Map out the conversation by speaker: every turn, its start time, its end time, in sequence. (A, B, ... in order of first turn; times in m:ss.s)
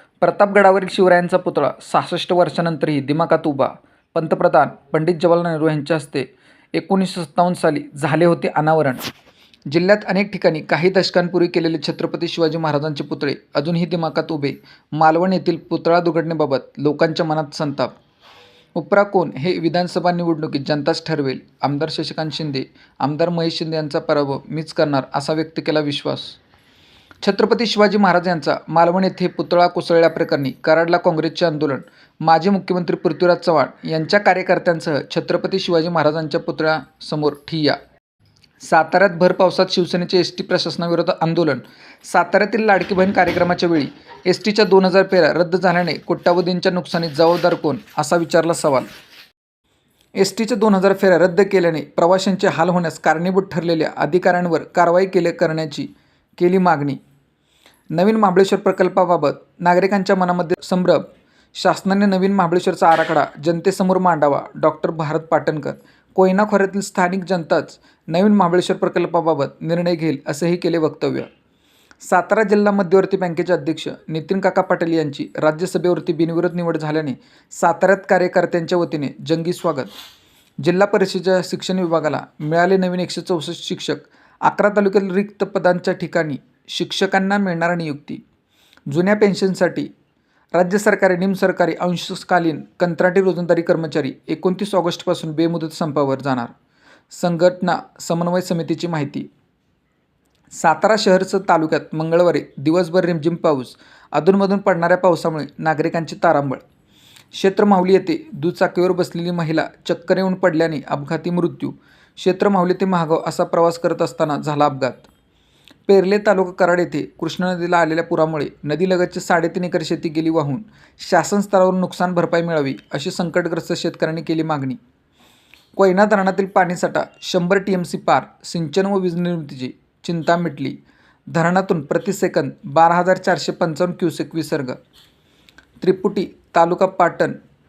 0:00.2-0:09.0 A
0:09.7-0:17.9 A
0:18.8-0:26.4 A
0:27.2-0:37.8 A
0:38.6-0:48.9 A
0:50.2-0:57.0 A
0:57.9-1:01.0 A
1:01.5-1:11.3 A
1:12.0-1:19.9 A
1:20.6-1:28.2 A
1:28.9-1:29.9 A
1:30.6-1:36.5 A
1:37.1-1:39.3 A
1:40.5-1:46.6 A
1:47.3-1:55.1 A
1:55.9-2:04.8 A
2:05.8-2:10.8 A
2:11.3-2:14.8 A
2:15.8-2:17.4 A